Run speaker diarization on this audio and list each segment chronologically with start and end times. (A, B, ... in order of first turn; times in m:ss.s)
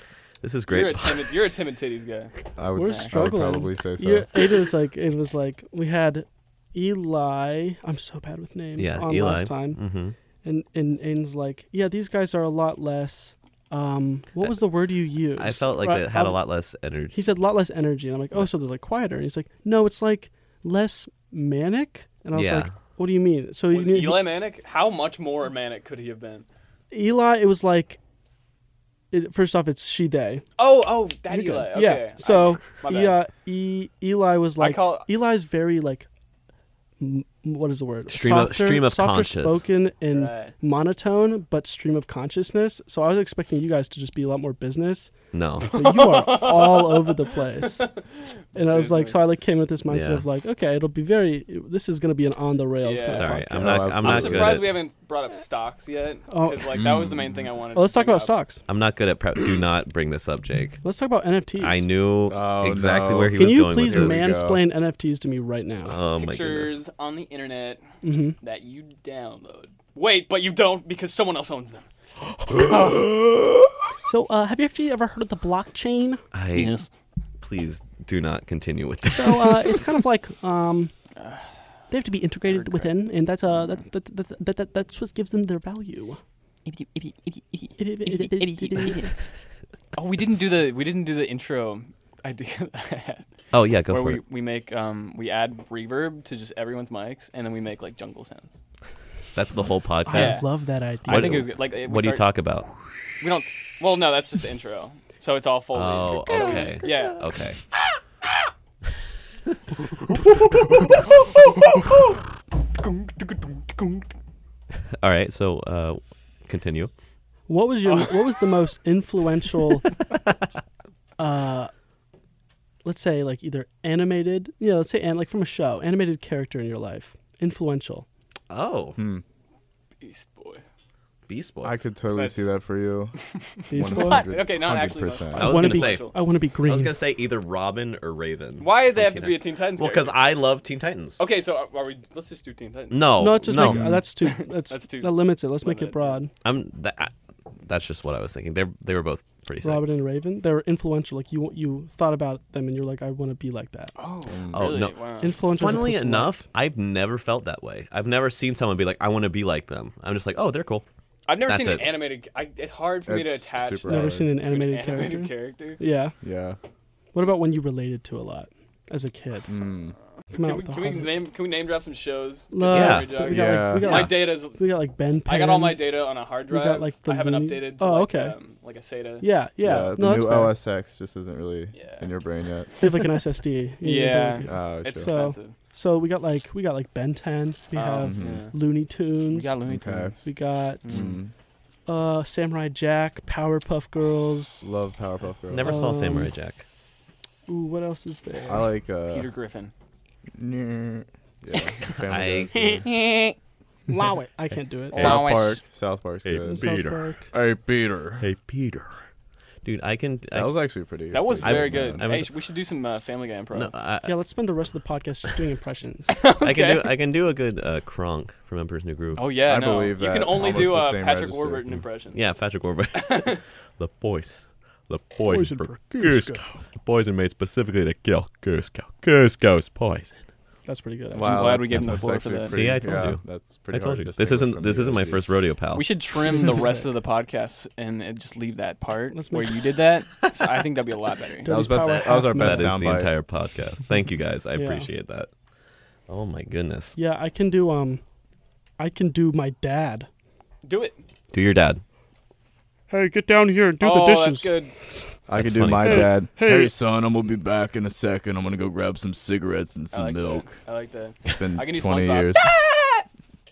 0:00.4-0:01.3 A
0:00.7-0:03.1 B
0:02.6-0:04.3 C
0:02.7-0:09.8 D
0:08.8-0:10.2 A
0:10.4-0:16.4 D
0:15.3-0:17.2 A
0:17.1-0:24.2 D
0:22.3-0:22.7 A
0:23.7-0:26.4 B
0:26.9-0:28.0 D
0:29.1-0:30.4 D
0:30.6-0:33.2 B
0:31.3-0:36.1 D
0:34.6-0:35.1 B
0:37.0-0:47.9 D
0:38.1-0:39.6 A
0:40.1-0:40.5 B
0:45.3-0:45.7 A
0:45.7-0:49.2 B
0:48.5-0:53.8 D
0:49.9-0:50.2 A
0:52.8-0:58.3 B
0:53.0-0:54.8 A
0:53.5-0:54.7 C
0:56.3-0:56.8 D
0:56.7-0:57.4 C
0:57.7-0:58.6 D
0:58.6-1:00.8 A
1:00.8-1:01.8 D
1:01.6-1:04.2 A
1:02.3-1:04.6 C
1:03.3-1:06.0 D
1:05.8-1:06.8 A
1:06.2-1:07.8 B
1:08.0-1:08.4 D
1:08.4-1:11.9 B
1:12.5-1:13.0 D
1:12.6-1:13.0 B
1:14.0-1:16.2 D
1:16.3-1:16.9 A
1:16.5-1:16.8 B
1:17.4-1:19.9 A
1:19.1-1:20.9 D
1:21.2-1:21.6 B
1:21.9-1:26.2 D
1:22.5-1:22.9 B
1:26.7-1:27.7 B
1:27.8-1:29.1 D
1:28.7-1:29.0 B
1:29.9-1:33.3 B
1:33.5-1:34.2 A
1:33.8-1:38.6 B
1:39.3-1:42.8 A
1:40.0-1:41.5 D
1:40.1-1:40.5 B
1:41.0-1:42.3 B
1:43.2-1:47.2 B
1:45.7-1:47.6 A
1:51.6-1:51.9 B
1:52.8-1:54.1 B
1:55.0-1:56.9 A
1:57.5-1:59.9 D
1:57.8-1:58.4 B
2:01.2-2:01.7 D
2:02.8-2:08.0 D
2:08.5-2:09.0 A
2:09.0-2:09.2 C
2:10.0-2:10.6 B
2:11.3-2:11.8 A
2:11.6-2:13.2 C
2:12.1-2:12.5 B
2:13.7-2:14.3 D
2:13.7-2:15.6 C
2:13.7-2:16.1 B
2:15.4-2:16.9 D
2:15.4-2:21.2 A
2:18.6-2:20.2 B
2:21.2-2:23.2 B
2:22.9-2:24.0 A
2:23.2-2:26.3 D
2:23.6-2:24.0 C
2:24.2-2:26.2 B
2:26.4-2:27.1 A
2:27.6-2:29.8 A
2:29.6-2:34.0 D
2:34.0-2:35.8 B
2:34.3-2:34.8 C
2:34.5-2:40.8 A
2:35.2-2:36.4 D
2:41.2-2:45.8 B
2:41.4-2:42.0 A
2:43.0-2:44.3 C
2:43.8-2:46.1 D
2:46.2-2:46.6 C
2:47.1-2:49.5 D
2:49.5-2:49.9 C
2:50.3-2:51.2 D
2:50.3-2:54.6 B
2:52.5-2:55.8 D
2:52.7-2:53.2 A
2:53.2-2:54.1 C
2:53.8-2:54.1 A
2:55.2-2:59.9 B
2:56.5-2:58.4 D
2:59.2-3:00.6 D
2:59.6-3:02.7 C
3:01.7-3:02.1 B
3:02.8-3:09.6 D
3:03.8-3:05.5 B
3:04.4-3:05.1 C
3:07.7-3:08.6 B
3:08.0-3:08.5 C
3:09.2-3:10.3 B
3:09.6-3:10.2 C
3:10.2-3:11.1 D
3:10.8-3:11.2 B
3:10.9-3:11.3 C
3:11.8-3:14.6 D
3:14.6-3:15.8 C
3:15.5-3:16.6 A
3:15.6-3:16.3 D
3:17.5-3:18.7 D
3:18.5-3:19.3 C
3:19.0-3:19.7 B
3:20.4-3:22.9 C
3:21.5-3:21.9 B
3:22.0-3:22.5 A
3:22.5-3:23.3 B
3:23.9-3:25.2 D
3:24.9-3:25.6 B
3:24.9-3:26.7 C
3:26.2-3:27.1 A
3:26.4-3:27.3 D
3:27.3-3:28.2 C
3:28.2-3:29.0 A
3:29.6-3:30.5 A
3:30.3-3:32.1 C
3:31.1-3:33.7 B
3:31.4-3:32.3 A
3:33.5-3:34.1 A
3:34.0-3:36.2 D
3:36.1-3:36.9 B
3:36.4-3:39.3 A
3:39.2-3:42.2 B
3:39.4-3:41.8 C
3:42.1-3:50.2 A
3:43.0-3:43.4 B
3:45.2-3:46.6 D
3:50.6-3:51.4 D
3:51.1-3:55.2 C
3:51.2-3:52.7 B
3:51.7-3:55.9 A
3:55.7-4:01.5 B
3:56.3-3:56.9 D
3:59.1-3:59.5 D
4:01.4-4:02.8 D
4:01.4-4:03.1 C
4:01.8-4:05.3 A
4:04.5-4:04.9 D
4:06.1-4:07.0 A
4:07.0-4:08.0 D
4:08.8-4:10.1 D
4:10.6-4:11.0 B
4:11.3-4:11.8 A
4:12.9-4:15.1 D
4:13.8-4:14.7 B
4:15.3-4:20.6 C
4:15.4-4:16.2 A
4:15.8-4:16.7 D
4:19.9-4:23.0 B
4:21.2-4:22.5 C